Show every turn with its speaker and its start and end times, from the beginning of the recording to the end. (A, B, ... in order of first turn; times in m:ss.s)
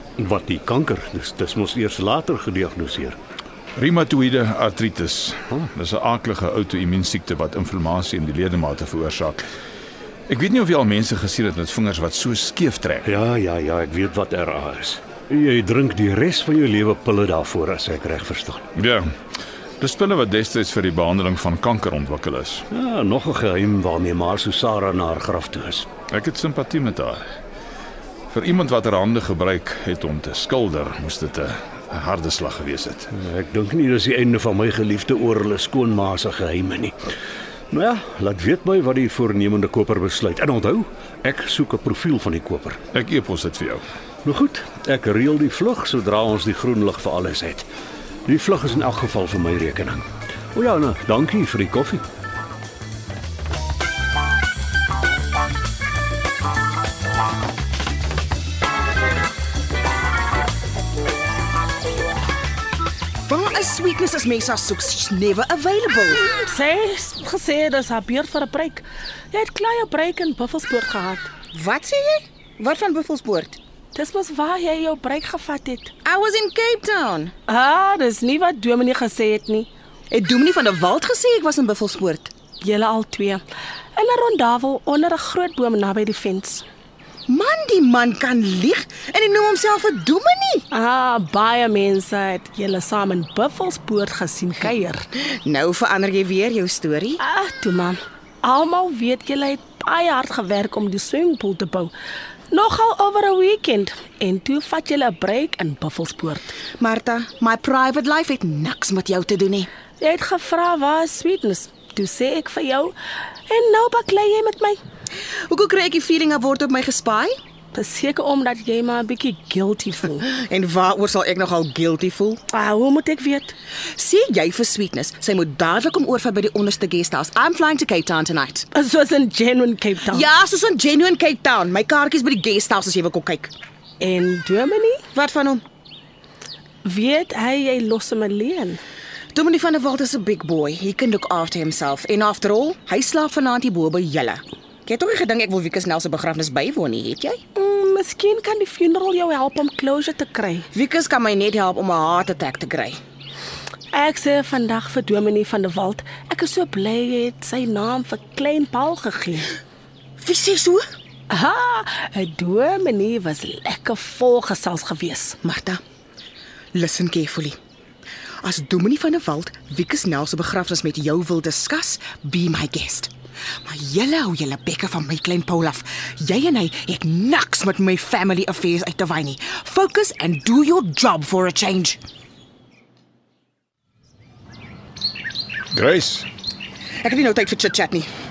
0:00.2-0:03.2 A
0:03.8-0:09.4 B
0:10.3-0:13.1 B
0:13.0-0:18.6 A
0:18.7-0:19.1 B
0:19.8-0:22.6 B
0:22.7-0:25.9 A
0:26.1-0:27.2 B
0:28.3-0:33.1 B
0:33.1-0:37.0 A
0:37.7-0:42.8 A
0:42.9-0:43.8 B
0:44.2-0:47.7 A
0:48.3-0:52.0 A
1:03.3-1:06.2 C
1:06.2-1:11.3 D
1:11.5-1:13.6 C
1:13.9-1:15.9 D
1:16.0-1:17.3 C
1:17.5-1:19.7 D
1:20.1-1:22.3 C
1:22.6-1:23.4 D
1:23.9-1:26.6 D
1:27.3-1:30.6 C
1:30.7-1:35.0 D
1:35.4-1:37.2 C
1:37.2-1:41.9 D
1:42.5-1:46.5 D
1:46.8-1:49.7 C
1:50.0-1:52.9 D
1:53.5-1:54.8 D
1:55.5-1:57.3 C
1:57.7-2:00.3 D
2:00.3-2:02.4 C
2:02.5-2:03.5 D
2:04.0-2:08.6 C
2:08.7-2:10.3 D
2:10.1-2:13.5 C
2:14.0-2:15.0 D
2:15.1-2:15.6 C
2:16.8-2:18.8 D
2:19.3-2:27.4 C
2:27.5-2:30.7 D
2:30.7-2:33.0 C
2:33.9-2:39.5 D
2:40.2-2:40.8 C
2:41.3-2:45.4 D
2:45.4-2:45.8 C
2:46.7-2:47.6 C
2:48.4-2:53.1 C
2:53.6-3:02.0 C
3:05.7-3:06.3 B
3:07.0-3:08.1 C